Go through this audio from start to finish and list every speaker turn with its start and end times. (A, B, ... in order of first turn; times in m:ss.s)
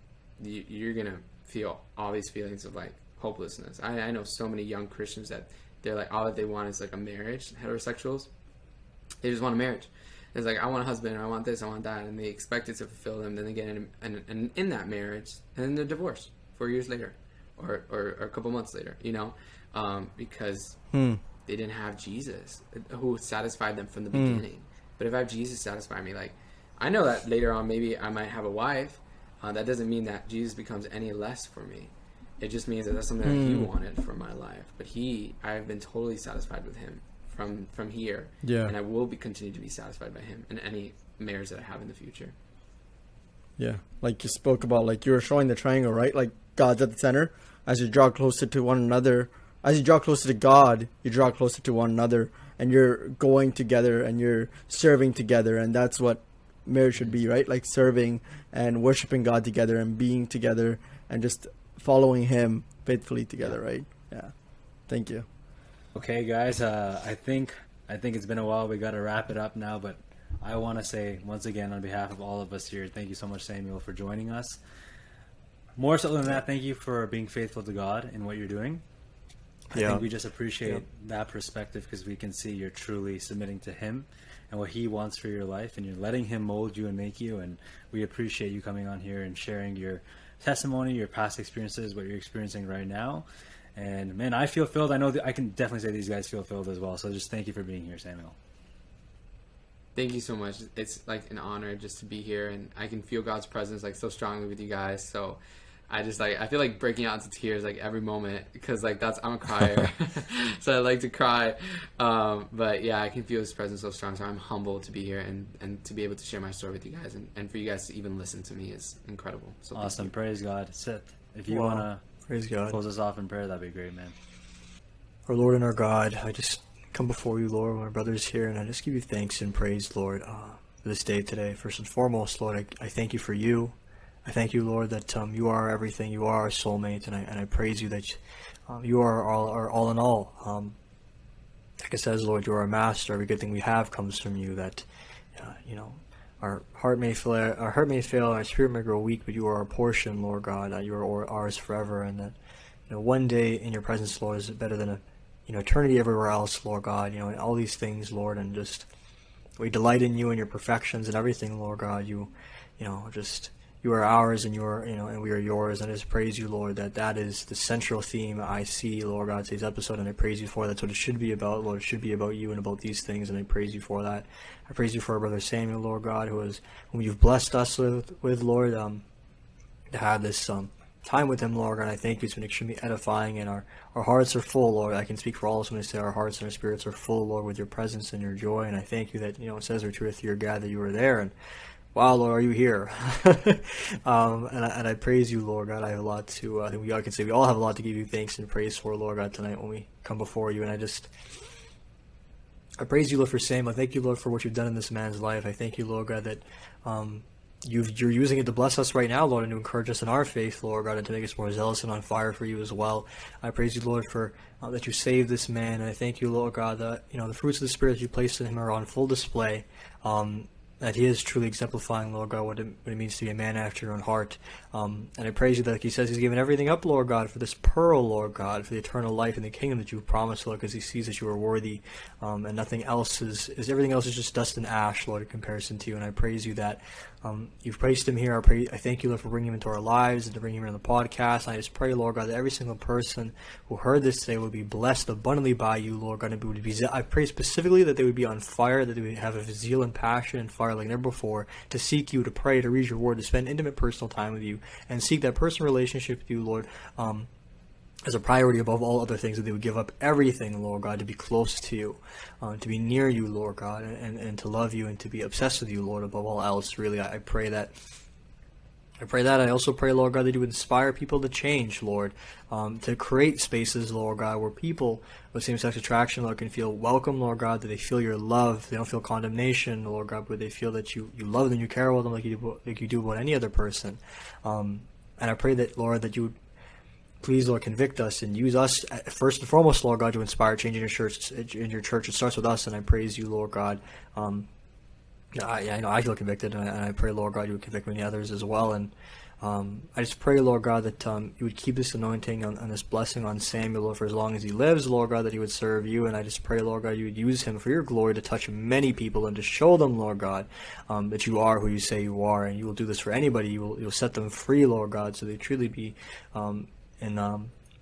0:00.4-0:08.3 A
0:09.2-0:20.8 A
0:20.9-0:21.2 B
0:21.4-0:42.3 A
0:24.1-0:24.4 B
0:33.2-0:33.7 B
0:38.4-0:38.7 B
0:43.6-1:04.3 B
1:04.9-1:05.2 B
1:05.9-1:14.6 C
1:15.8-1:18.8 C
1:19.7-1:20.0 D
1:19.7-1:33.2 C
1:33.8-1:38.3 C
1:40.0-2:00.1 A
1:59.7-2:02.0 C
2:01.5-2:02.8 D
2:02.7-2:04.1 C
2:05.2-2:20.8 D
2:21.8-2:24.8 D
2:25.4-2:32.4 D
2:32.9-2:38.9 D
2:39.6-2:59.0 D
2:59.9-3:11.3 D
3:11.9-3:21.2 D
3:22.8-4:17.3 D
4:18.0-4:27.7 D
4:29.0-4:46.4 D
4:47.2-4:54.5 D
4:55.4-5:17.5 D